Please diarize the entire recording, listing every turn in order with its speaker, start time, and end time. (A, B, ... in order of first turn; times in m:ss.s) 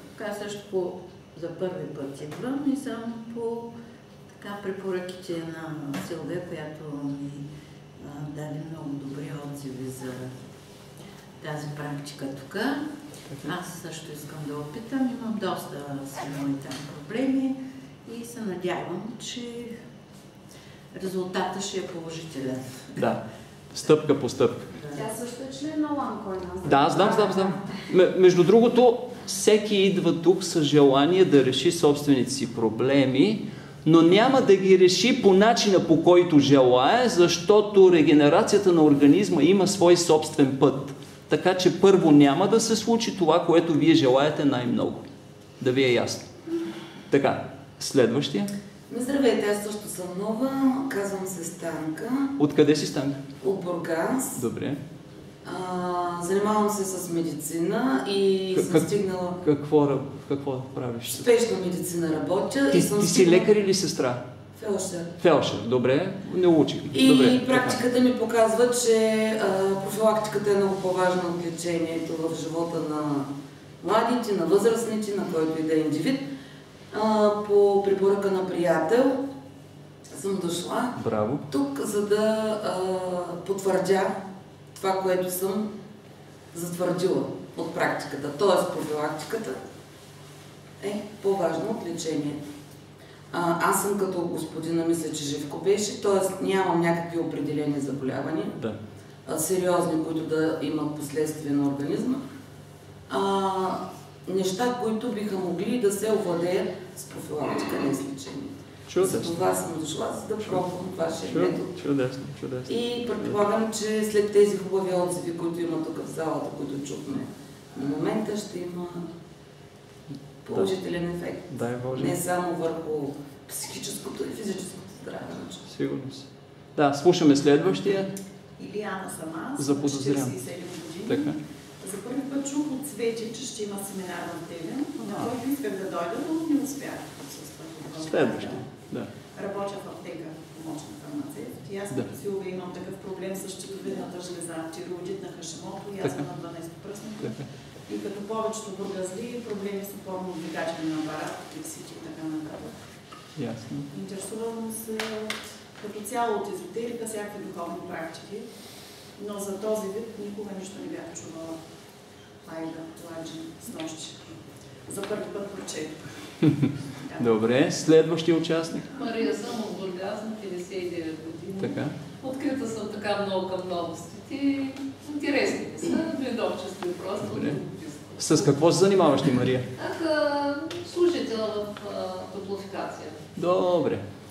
0:00.1-0:03.7 A
0:04.4-0:07.5 A
0:08.0-0:10.3 A
0:11.4-0:12.8 A
0:13.3-0:13.5 B
0:13.4-0:19.8 A
0:20.9-0:23.0 A
0:23.7-0:24.7 B
0:24.8-0:25.0 A
0:24.9-0:27.4 C
0:26.6-0:45.0 B
0:45.6-0:46.2 B
0:47.1-0:48.5 B
0:48.9-0:52.4 D
0:52.4-0:53.2 B
0:53.4-0:54.4 D
0:54.4-0:54.8 B
0:55.4-0:59.4 D
0:58.5-0:58.9 B
0:59.4-1:01.2 B
1:01.1-1:03.5 D
1:02.7-1:04.2 B
1:04.5-1:05.1 D
1:05.2-1:07.8 B
1:06.9-1:13.3 D
1:13.8-1:16.2 D
1:16.9-1:19.2 D
1:20.1-1:21.0 D
1:21.0-1:21.4 B
1:21.5-1:24.1 D
1:24.8-1:25.7 D
1:26.5-1:29.6 D
1:30.8-1:32.4 D
1:33.3-1:38.6 D
1:39.2-1:42.2 D
1:43.1-1:51.8 D
1:48.9-1:49.4 B
1:51.3-1:53.4 B
1:52.6-1:59.0 D
2:00.4-2:05.7 D
2:01.5-2:02.2 B
2:05.7-2:08.1 B
2:08.6-2:11.3 E
2:09.6-2:10.4 B
2:11.0-2:11.4 B
2:11.8-2:18.6 E
2:18.0-2:19.1 B
2:19.3-2:32.7 E
2:26.0-2:26.3 B
2:27.2-2:27.5 B
2:33.4-2:33.9 B
2:33.9-2:38.4 E
2:39.2-2:41.6 E
2:42.4-2:44.3 E
2:44.9-2:46.0 E
2:47.0-2:47.2 E
2:47.2-2:48.9 B
2:49.0-2:58.2 F
2:51.6-2:51.9 B
2:57.2-2:57.6 B
2:58.2-2:59.7 B
2:59.7-3:03.2 F
3:03.4-3:04.0 B